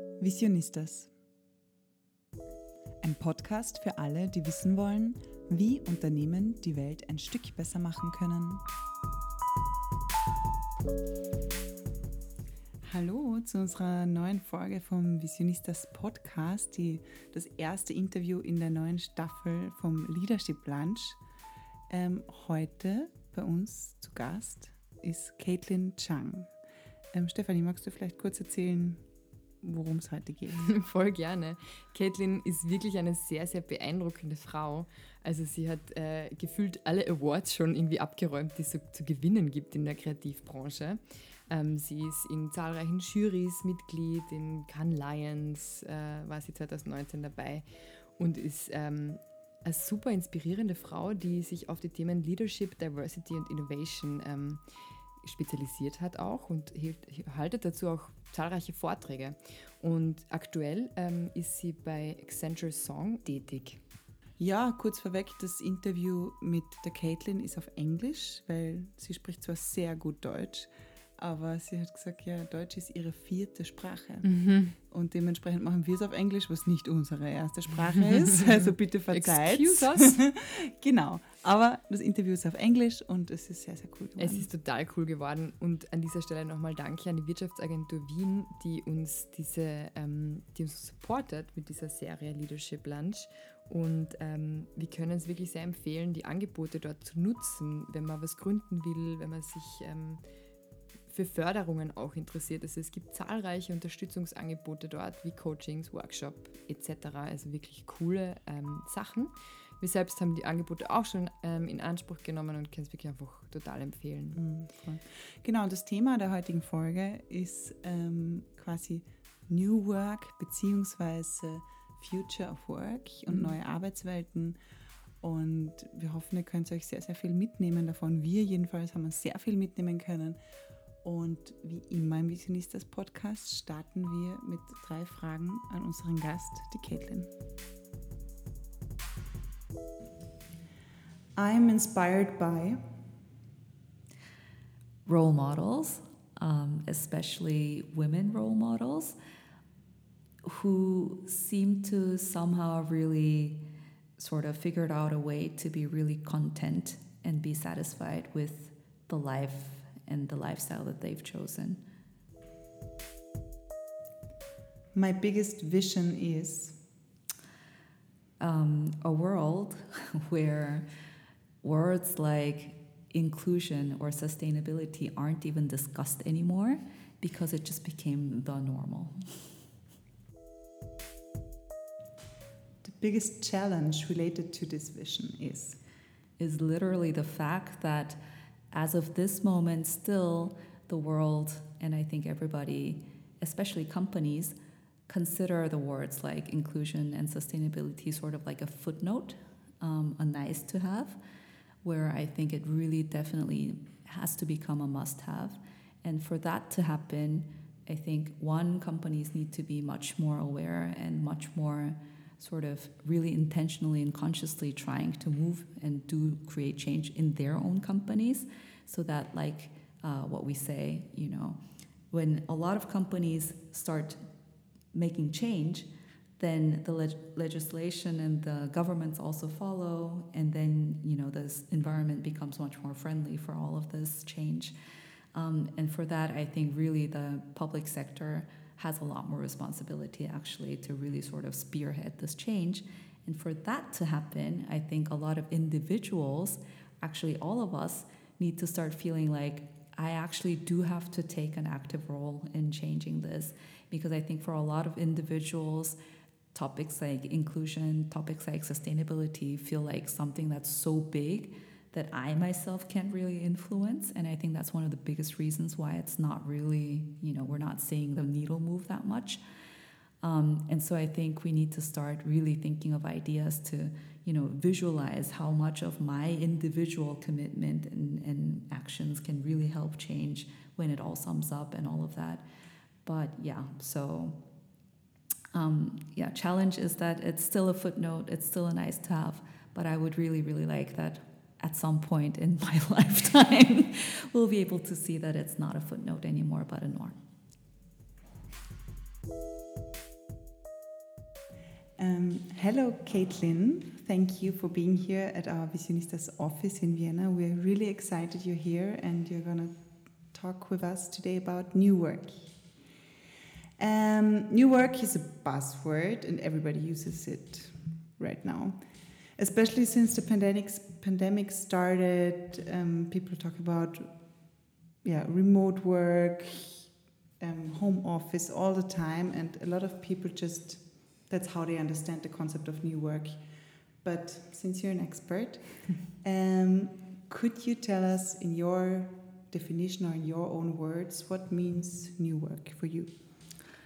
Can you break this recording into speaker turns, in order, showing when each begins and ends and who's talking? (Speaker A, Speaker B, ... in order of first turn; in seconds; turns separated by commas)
Speaker A: 0.2-1.1, Speaker A: 3.0-8.6, Speaker A: 12.8-21.2, Speaker A: 21.9-26.6, Speaker A: 27.1-29.1, Speaker A: 29.6-30.7, Speaker B: 30.5-63.8, Speaker A: 64.4-84.5, Speaker B: 74.2-74.8, Speaker B: 79.1-80.2, Speaker B: 84.2-100.3, Speaker B: 101.1-114.5, Speaker A: 114.3-124.6, Speaker B: 123.3-123.5, Speaker A: 125.2-130.4, Speaker A: 131.0-137.3, Speaker A: 141.3-142.8, Speaker C: 145.1-149.2, Speaker C: 150.4-153.6, Speaker C: 154.2-161.8, Speaker A: 164.9-166.8, Speaker C: 168.4-170.9, Speaker C: 171.6-179.5, Speaker A: 182.8-185.8, Speaker C: 186.4-188.2, Speaker C: 188.7-194.6, Speaker C: 195.1-201.2, Speaker C: 201.8-221.6, Speaker C: 222.1-224.2, Speaker C: 224.9-234.7, Speaker C: 235.3-256.0, Speaker C: 256.5-269.4, Speaker C: 270.2-282.4, Speaker C: 283.0-284.4, Speaker C: 285.5-297.2, Speaker A: 302.0-312.8, Speaker A: 313.8-333.4, Speaker A: 334.0-343.1